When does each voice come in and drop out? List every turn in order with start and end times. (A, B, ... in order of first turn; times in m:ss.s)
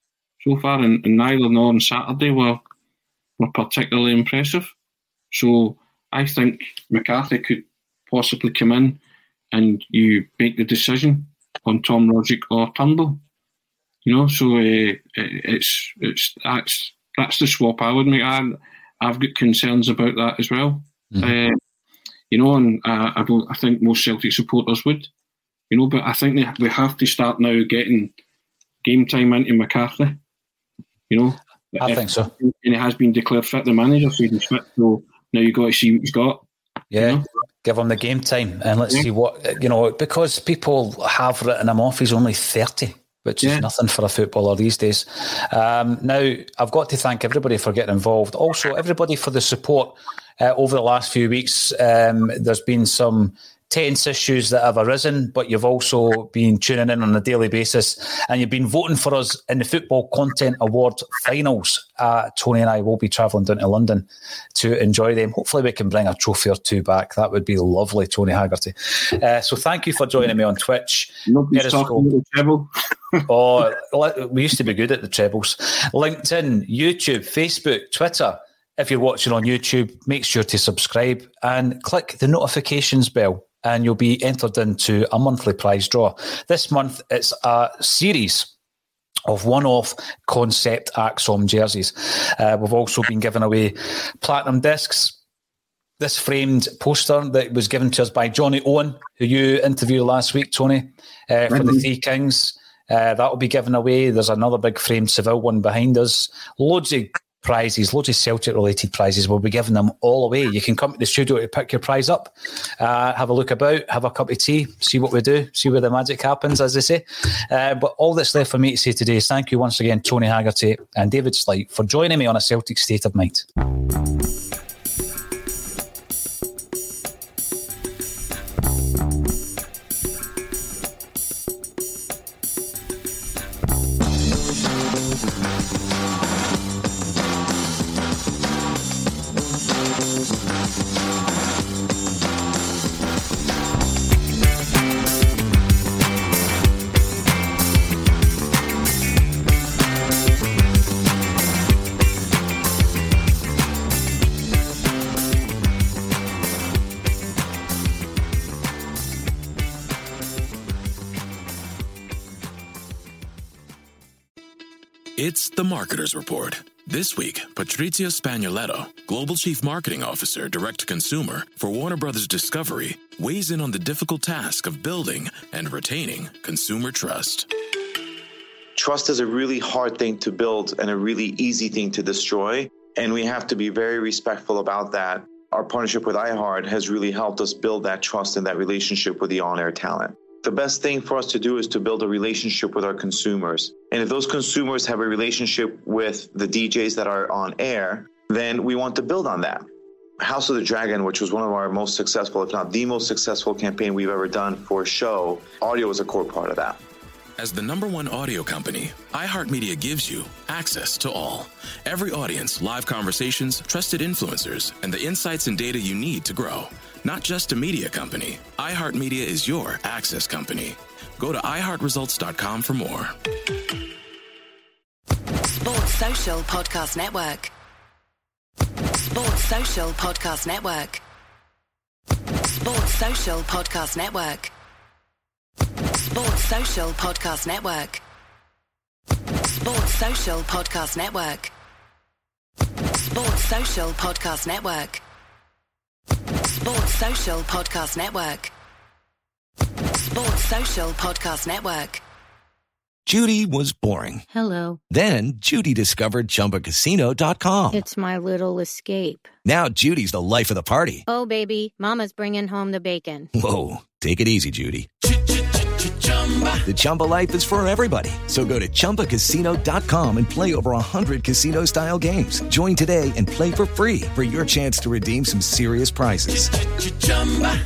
0:00.4-0:02.6 A
0:03.4-0:04.7 A
0:05.3-0:09.0 A
0:09.5-0:13.2 A
0:14.0-0:21.6 A
0:22.3-0:25.1 A
0:25.7-0:28.1 A
0:28.8-0:30.2 A
0:31.1-0:36.4 A
0:31.8-0:32.3 B
0:36.9-1:12.1 B
0:37.0-0:37.2 A
0:43.4-0:43.7 A
1:11.3-1:13.2 A
1:13.3-1:28.5 B
1:29.3-1:35.2 B
1:36.0-2:03.5 B
1:41.5-1:41.8 A
2:45.2-2:57.5 C
2:58.8-3:19.6 D
3:20.2-3:26.8 D
3:27.4-3:43.2 C
3:45.3-3:47.5 E
3:48.8-3:51.0 E
3:52.3-3:54.5 E
3:55.8-3:58.0 E
3:59.3-4:01.5 E
4:02.8-4:05.0 E
4:06.3-4:08.5 E
4:09.8-4:12.0 E
4:13.1-4:14.3 F
4:14.3-4:14.8 G
4:14.9-4:17.8 F
4:17.7-4:19.3 G
4:19.4-4:21.0 F
4:21.1-4:23.3 G
4:23.3-4:24.9 F
4:26.0-4:26.6 E
4:26.7-4:36.5 F
4:37.0-4:37.6 E